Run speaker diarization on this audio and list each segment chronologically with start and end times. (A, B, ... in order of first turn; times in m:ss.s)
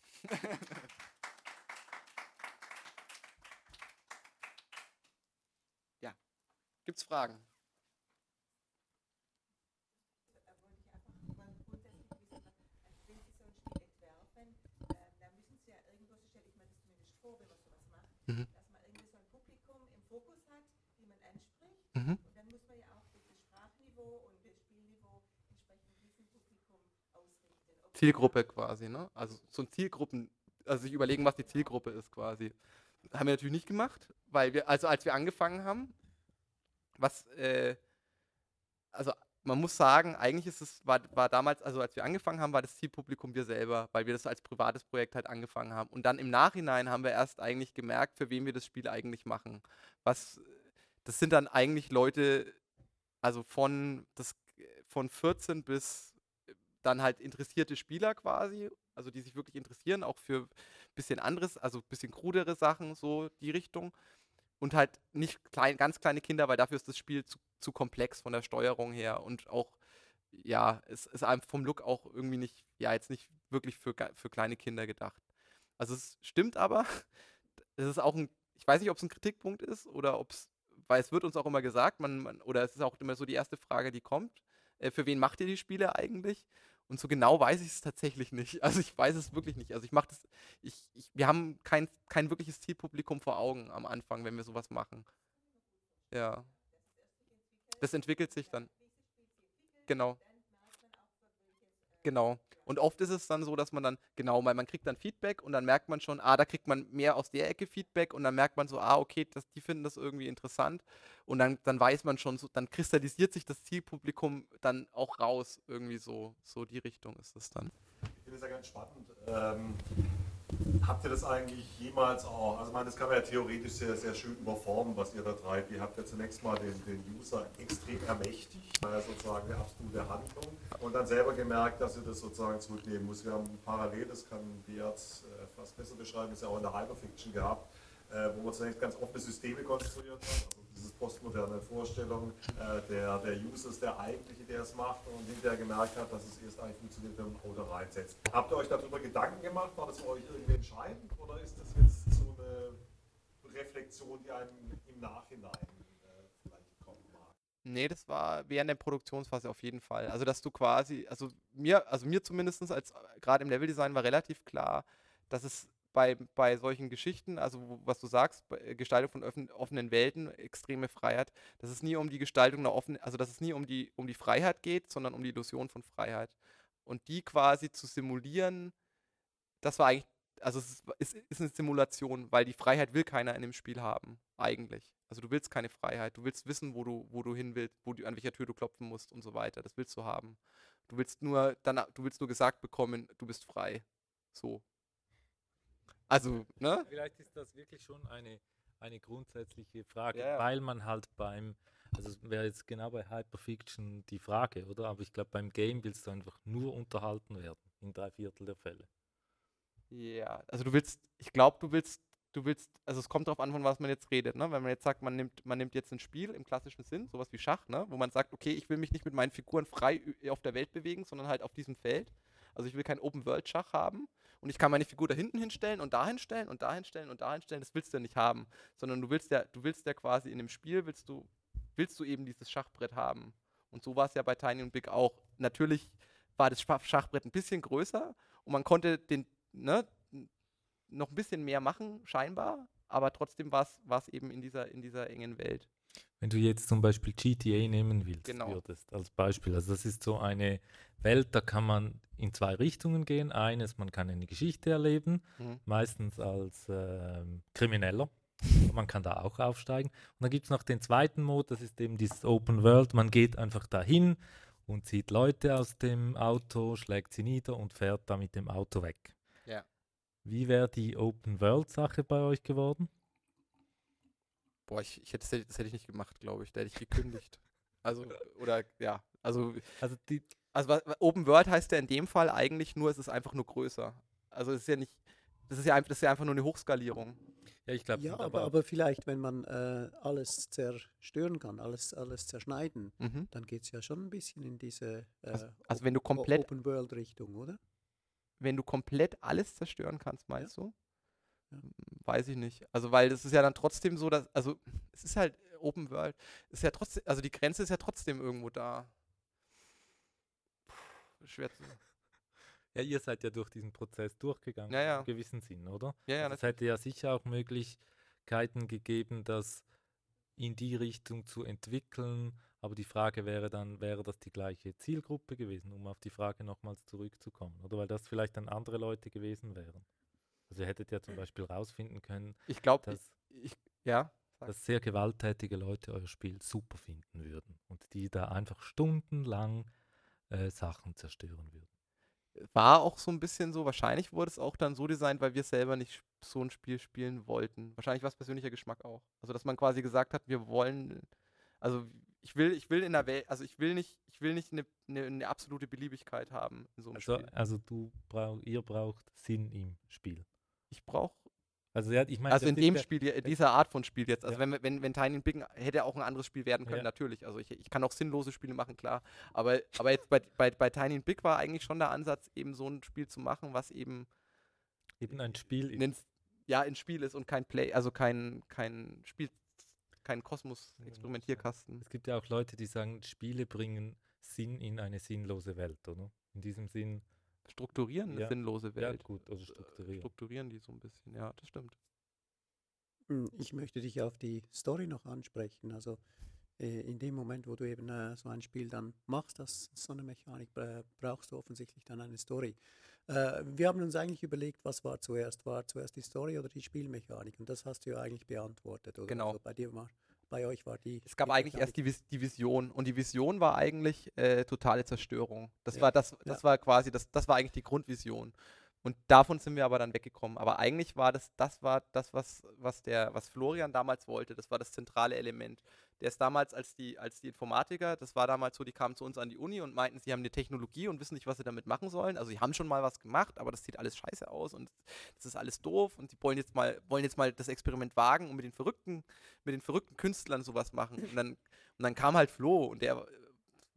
0:00.2-0:00.9 A
0:06.8-0:07.5 A
0:10.6-0:28.0 B
0:22.0-0:22.2 A
0:28.0-0:32.6 A
0:33.1-0:35.9 A
0:37.0-0:37.8 A
0:38.9-0:52.6 A
0:53.2-0:56.2 A
0:56.8-1:03.9 A
1:04.6-1:09.8 A
1:10.3-1:15.2 A
1:15.8-1:17.1 A
1:17.8-1:35.1 A
1:36.1-1:36.5 A
1:37.2-1:37.7 B
1:37.8-1:38.7 A
1:39.9-1:40.2 A
1:40.3-1:41.9 B
1:42.0-1:57.7 A
1:58.2-1:59.9 C
2:00.8-2:32.8 C
2:33.4-2:37.3 C
2:37.6-2:56.4 A
2:56.9-2:58.7 A
2:59.6-3:14.6 A
3:16.1-3:16.9 A
3:16.8-3:28.9 D
3:20.1-3:20.5 A
3:29.9-4:00.3 A
4:00.9-4:05.7 A
4:06.2-4:29.1 D
4:08.2-4:08.6 A
4:30.2-4:32.9 D
4:34.7-4:39.8 A
4:39.8-4:40.2 D
4:40.5-4:47.2 A
4:47.7-4:48.5 D
4:48.0-4:57.6 E
4:53.0-4:53.3 A
4:55.7-4:56.5 A
4:58.4-5:00.7 A
5:01.6-5:08.9 A
5:10.7-5:11.8 A
5:12.7-5:19.6 D
5:14.7-5:15.1 A
5:16.1-5:16.5 A
5:20.4-5:29.9 D
5:30.5-5:33.1 D
5:32.5-5:34.5 A
5:34.5-5:39.7 D
5:40.3-5:41.7 D
5:42.4-5:51.1 A
5:51.6-5:57.3 A
5:57.0-6:00.3 D
6:00.7-6:01.2 A
6:01.8-6:03.3 D
6:02.3-6:14.1 A
6:15.0-6:15.9 D
6:15.7-6:21.8 A
6:20.8-6:27.0 D
6:27.5-6:31.8 A
6:28.1-6:30.1 D
6:33.1-6:36.0 E
6:36.6-6:51.8 E
6:49.1-6:49.4 A
6:51.1-7:23.3 A
6:55.7-6:56.4 E